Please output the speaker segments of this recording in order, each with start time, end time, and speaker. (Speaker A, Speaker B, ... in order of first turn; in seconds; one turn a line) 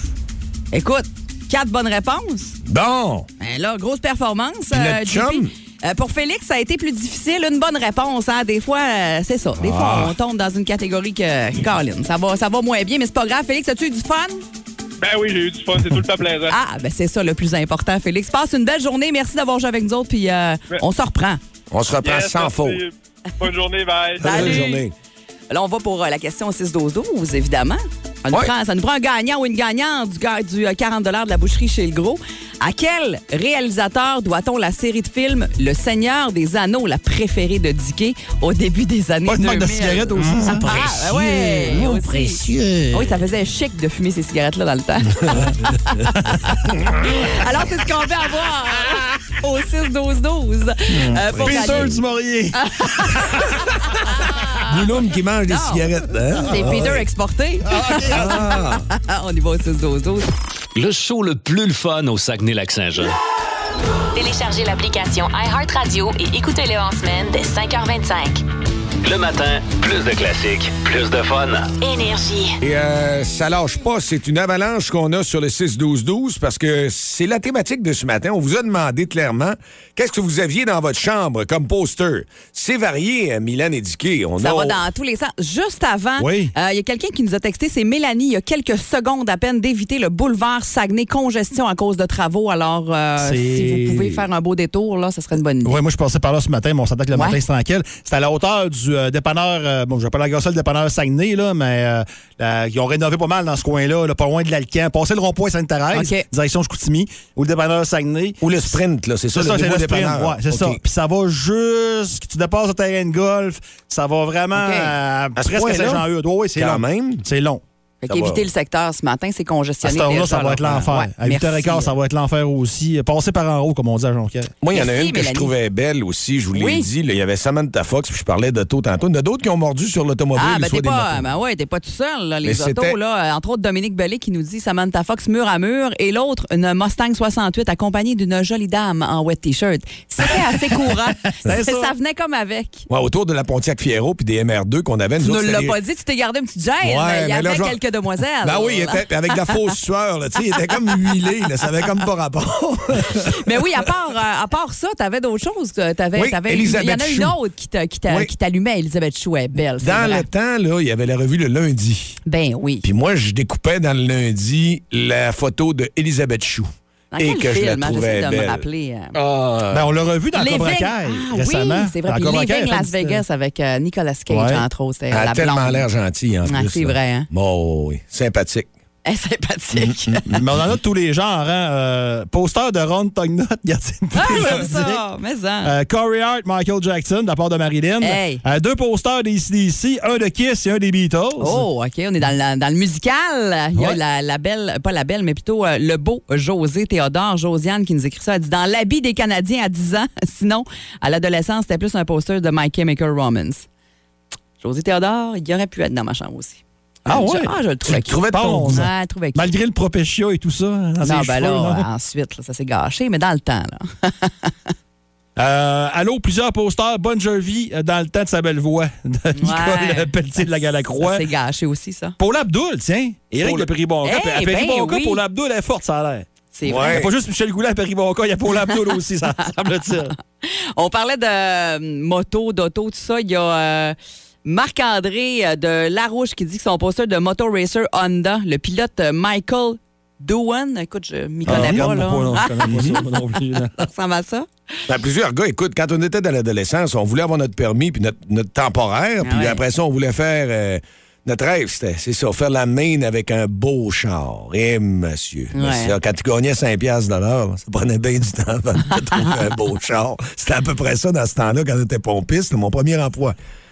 Speaker A: 0.7-2.6
Speaker B: 2.6-3.3
Speaker A: 3.4-14.4
Speaker B: 4.7-5.5
Speaker B: 9.6-10.1
Speaker C: 15.0-16.6
Speaker A: 16.5-21.4
Speaker B: 21.7-22.8
Speaker C: 22.0-24.8
Speaker B: 24.2-24.9
Speaker A: 24.2-24.8
Speaker A: 25.5-52.0
Speaker D: 39.2-42.6
Speaker B: 41.8-42.9
Speaker B: 46.8-47.2
Speaker D: 50.9-53.5
Speaker B: 51.2-52.0
Speaker A: 52.5-54.7
Speaker B: 54.6-57.0
Speaker A: 55.5-55.8
Speaker A: 56.4-60.3
Speaker D: 57.7-58.4
Speaker B: 58.1-58.8
Speaker E: 60.7-63.1
Speaker F: 64.1-68.4
Speaker E: 69.0-71.8
Speaker F: 71.8-72.5
Speaker B: 72.6-84.8
Speaker A: 84.4-95.8
Speaker D: 86.2-86.5
Speaker D: 93.2-94.2
Speaker D: 95.6-108.8
Speaker A: 105.9-106.2
Speaker B: 108.4-110.8
Speaker D: 109.3-117.6
Speaker A: 114.5-114.9
Speaker B: 115.4-116.0
Speaker B: 116.5-117.2
Speaker A: 118.0-121.9
Speaker B: 118.1-118.4
Speaker D: 119.8-124.5
Speaker B: 124.6-131.3
Speaker A: 124.7-125.5
Speaker A: 126.5-126.9
Speaker A: 130.3-142.9
Speaker B: 132.4-132.9
Speaker D: 141.4-141.9
Speaker B: 142.9-145.8
Speaker A: 145.2-149.6
Speaker B: 146.8-147.8
Speaker B: 148.4-153.4
Speaker A: 153.2-160.2
Speaker B: 156.2-157.3
Speaker B: 159.8-162.2
Speaker A: 162.2-162.8
Speaker B: 162.8-168.6
Speaker A: 167.1-169.2
Speaker B: 169.2-169.8
Speaker D: 169.3-173.2
Speaker A: 170.3-175.9
Speaker D: 174.3-174.6
Speaker B: 175.1-178.7
Speaker A: 176.4-177.3
Speaker A: 179.0-180.3
Speaker B: 179.8-180.4
Speaker D: 180.3-185.0
Speaker A: 184.1-185.7
Speaker D: 185.6-191.6
Speaker A: 188.0-188.4
Speaker A: 191.4-203.7
Speaker A: 204.6-209.5
Speaker D: 207.1-207.5
Speaker B: 207.8-208.9
Speaker D: 208.3-211.8
Speaker A: 211.0-214.7
Speaker D: 215.3-221.2
Speaker A: 219.4-222.2
Speaker D: 222.2-226.3
Speaker B: 223.4-223.7
Speaker A: 224.0-225.2
Speaker A: 226.5-227.0
Speaker B: 226.6-227.1
Speaker D: 226.9-230.1
Speaker A: 230.4-242.9
Speaker D: 241.4-243.8
Speaker B: 241.5-241.9
Speaker B: 242.7-243.0
Speaker A: 243.8-244.5
Speaker B: 244.9-263.4
Speaker A: 249.2-249.6
Speaker A: 255.5-255.9